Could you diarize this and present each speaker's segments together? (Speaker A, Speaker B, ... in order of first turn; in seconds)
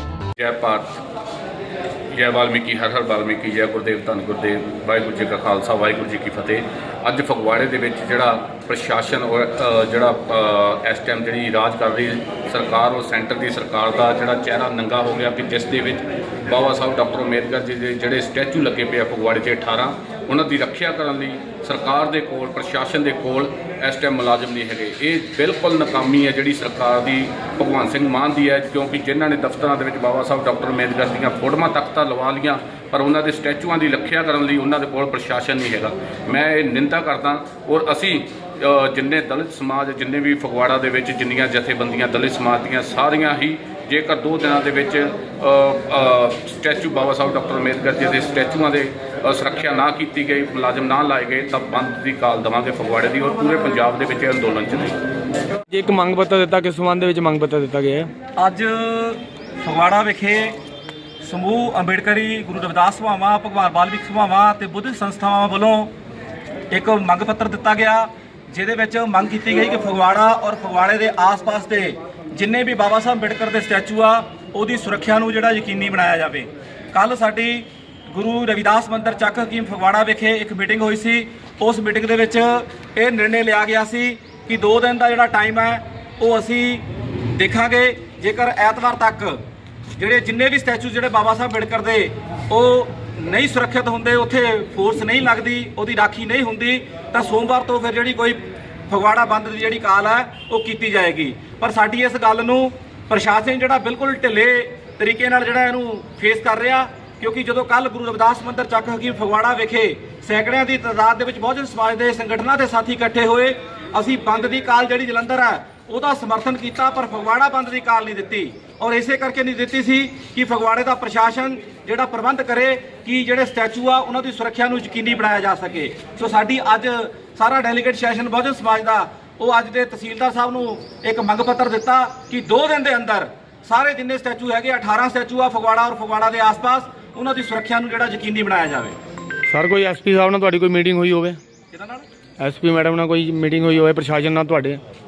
Speaker A: 0.4-1.0, 2.1-55.0
Speaker B: 55.7-58.1, 139.5-141.4, 142.4-144.8
Speaker C: 58.4-60.6, 61.2-65.9, 66.7-89.4, 90.0-139.0, 141.7-142.1